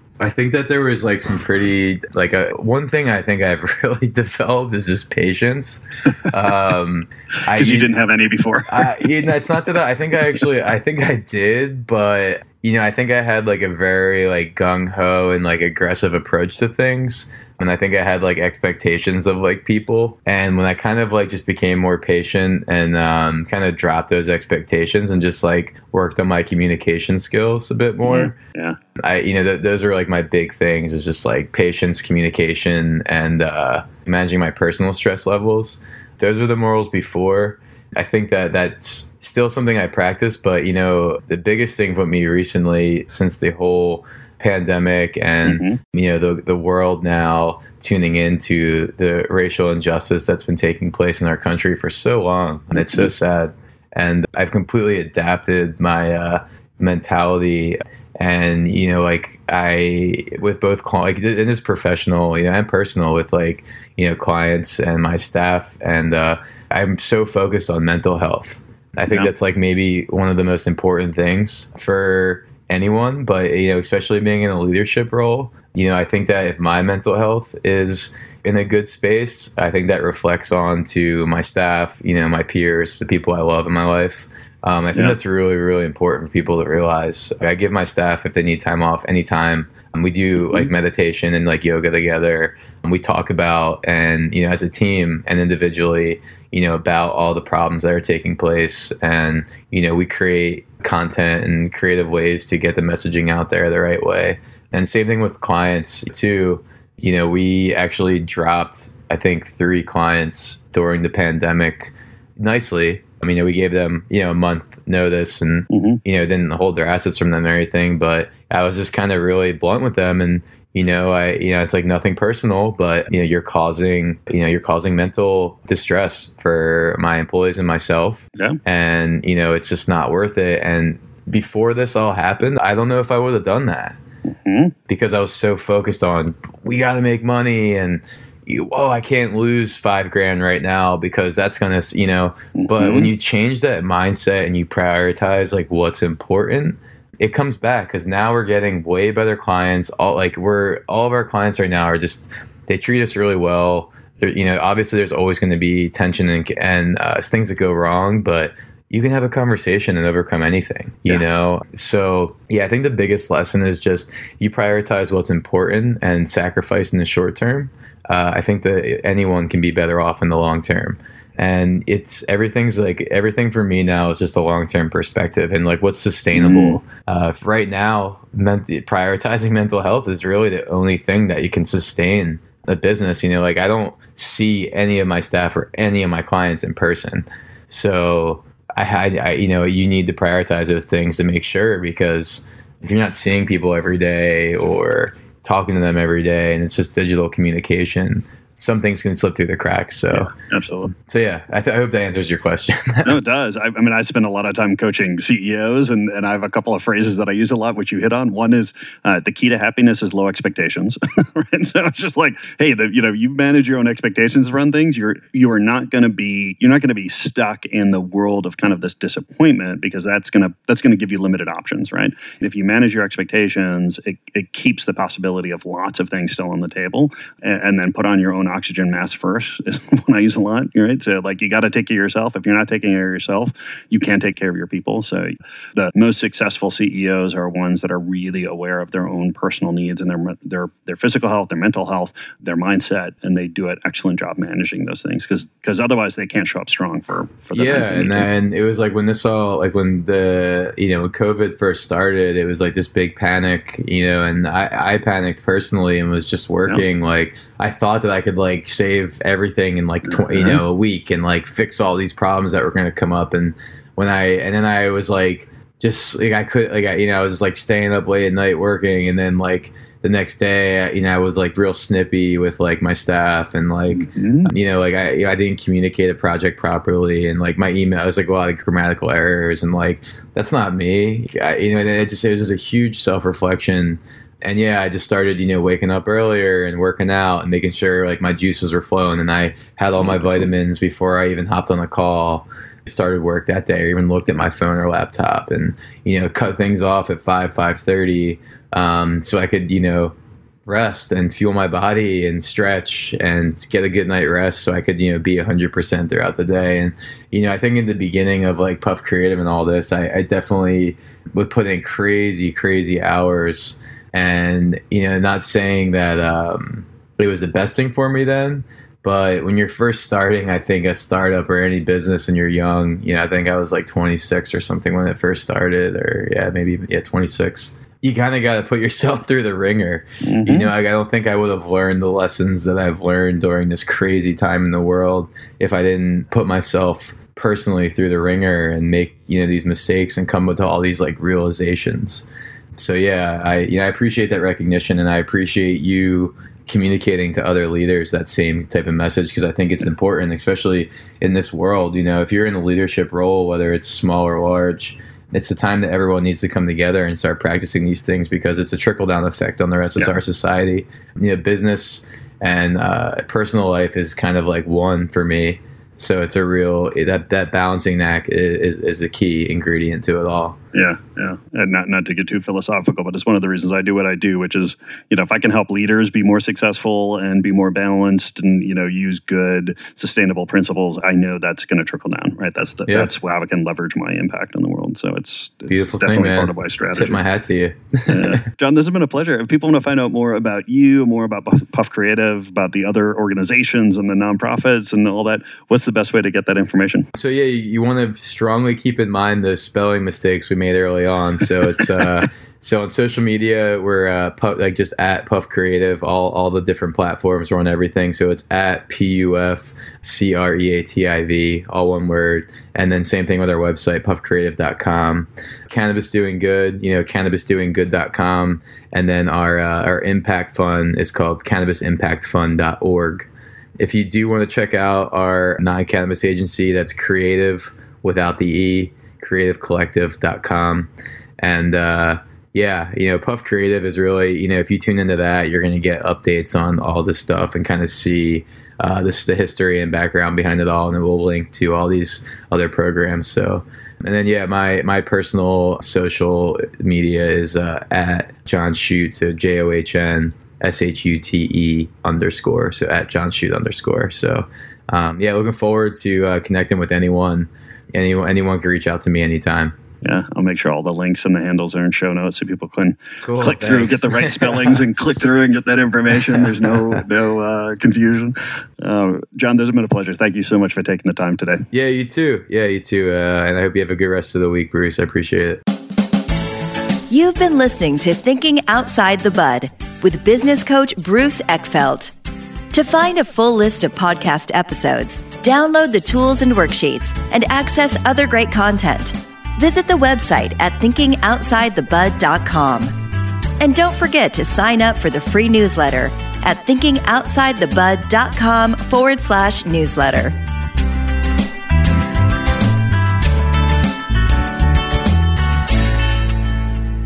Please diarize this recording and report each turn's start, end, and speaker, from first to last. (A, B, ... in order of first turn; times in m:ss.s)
0:00.2-0:07.9 A
0:07.5-0:09.0 B
0:08.7-0:28.4 A
0:28.0-0:28.8 B
0:29.0-2:14.0 A
0:45.4-0:45.8 B
0:52.8-0:53.1 B
1:55.7-1:56.0 B
2:14.3-2:14.7 B
2:14.9-3:20.3 A
2:22.6-2:23.1 B
2:56.3-2:56.8 B
3:20.1-3:20.9 B
3:21.0-3:23.2 A
3:23.0-4:08.3 B
4:07.5-5:00.1 A
4:20.1-4:20.6 B
4:33.9-4:34.5 B
4:50.0-4:50.4 B
5:00.6-5:42.2 A
5:30.2-5:30.7 B
5:42.8-6:10.6 A
6:10.7-6:27.2 B
6:25.7-6:28.4 A
6:28.1-6:37.1 B
6:37.1-7:03.3 A
7:03.8-7:39.7 A
7:40.0-7:51.6 B
7:43.2-7:44.8 A
7:46.6-7:47.0 A
7:51.7-7:55.6 A
7:57.1-8:02.1 C
8:02.7-8:12.9 C
8:13.6-8:20.3 C